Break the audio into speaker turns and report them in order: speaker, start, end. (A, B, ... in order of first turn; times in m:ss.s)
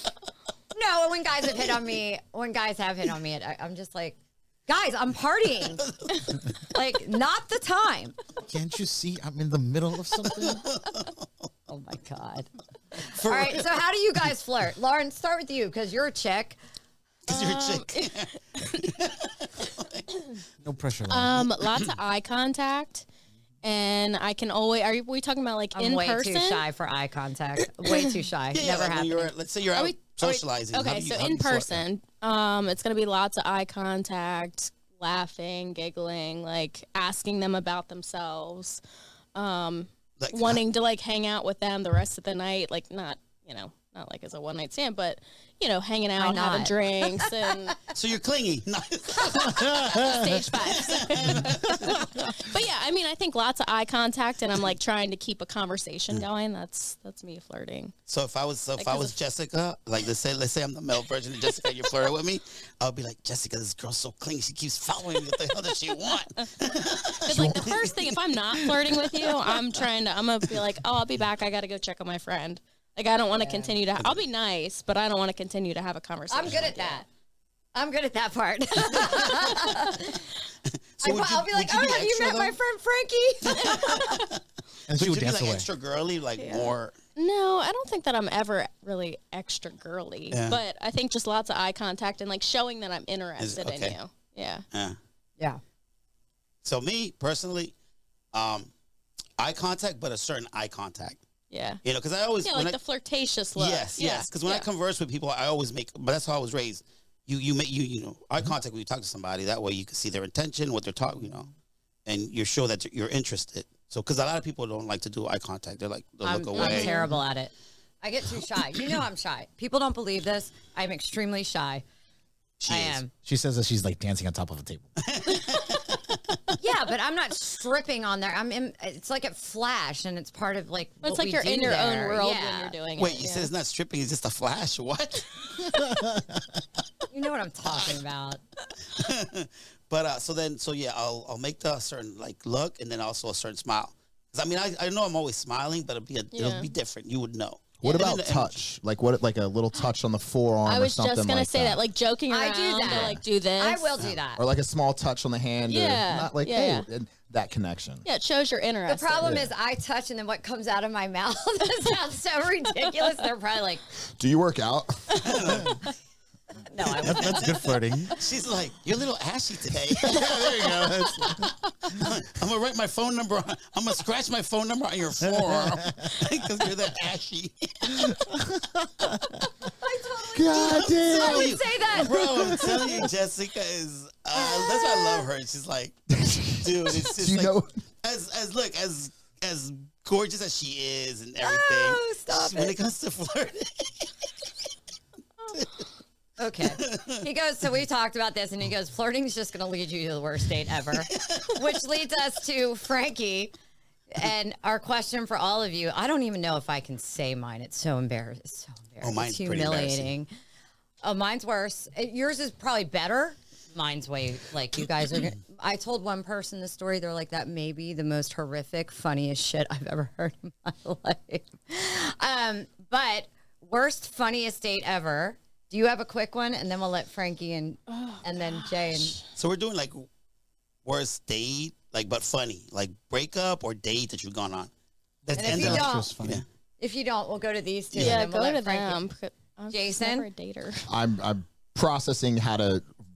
0:00.7-0:05.9 A
0:05.6-0:06.1 B
0:06.7-0:08.2 A
0:08.4-0:10.7 C
0:10.4-0:11.2 B
0:11.7-0:16.6 A
0:13.1-0:13.8 B
0:17.3-0:20.1 B
0:17.3-0:18.9 D
0:20.6-0:21.4 C
0:21.1-0:23.0 D
0:23.6-0:26.6 D
0:25.7-0:29.3 A
0:28.5-0:31.8 B
0:29.7-0:38.8 D
0:39.3-0:47.8 D
0:40.2-0:40.6 B
0:46.2-0:47.3 A
0:47.9-0:52.0 B
0:50.0-0:57.9 D
0:51.4-0:52.1 C
0:58.1-1:07.9 B
0:58.8-0:59.2 D
1:07.2-1:17.0 D
1:07.3-1:07.8 E
1:13.3-1:13.7 A
1:16.3-1:17.0 A
1:17.7-1:20.2 A
1:21.0-1:22.6 B
1:21.0-1:24.2 A
1:23.4-1:24.4 B
1:24.9-1:25.7 C
1:25.0-1:26.9 B
1:26.4-1:34.6 D
1:30.3-1:30.6 B
1:33.4-1:34.0 B
1:36.6-1:37.7 B
1:38.3-1:38.7 B
1:39.4-1:41.2 B
1:41.5-1:41.8 D
1:41.8-1:42.8 B
1:42.4-1:44.7 D
1:43.6-1:51.5 B
1:52.0-1:56.9 B
1:56.2-2:01.8 A
1:56.5-1:57.1 D
2:02.6-2:03.0 B
2:02.7-2:03.1 A
2:03.2-2:04.9 C
2:05.0-2:06.2 B
2:06.6-2:12.8 A
2:11.0-2:13.5 D
2:13.0-2:15.7 B
2:15.6-2:16.4 C
2:17.1-2:18.4 A
2:17.6-2:18.0 B
2:18.9-2:28.6 B
2:26.3-2:26.7 D
2:27.8-2:31.8 E
2:30.6-2:33.9 D
2:32.3-2:34.4 A
2:34.4-2:38.0 E
2:35.7-2:36.9 D
2:38.0-2:39.4 D
2:38.9-2:43.8 A
2:39.2-2:39.5 E
2:44.2-2:45.7 E
2:45.2-2:45.8 B
2:46.7-2:47.8 A
2:47.0-2:48.1 C
2:47.1-2:47.4 B
2:48.2-2:50.4 B
2:50.0-2:52.0 C
2:52.0-2:58.4 B
2:55.4-2:56.1 C
2:58.0-2:59.2 C
2:59.8-3:02.6 A
3:00.3-3:02.4 E
3:00.5-3:14.2 B
3:04.4-3:05.2 A
3:06.1-3:07.7 E
3:11.4-3:12.8 A
3:15.5-3:15.8 B
3:16.4-3:23.5 A
3:16.6-3:17.2 B
3:21.1-3:21.6 B
3:24.1-3:30.3 A
3:29.0-3:30.1 B
3:31.0-3:49.2 A
3:47.9-3:49.2 D
3:49.4-3:50.1 B
3:50.8-3:54.7 B
3:55.2-3:56.4 B
3:55.3-3:56.1 A
3:55.4-3:56.4 C
3:56.8-3:59.0 A
3:57.9-4:00.9 D
3:59.7-4:00.3 A
4:00.9-4:02.9 E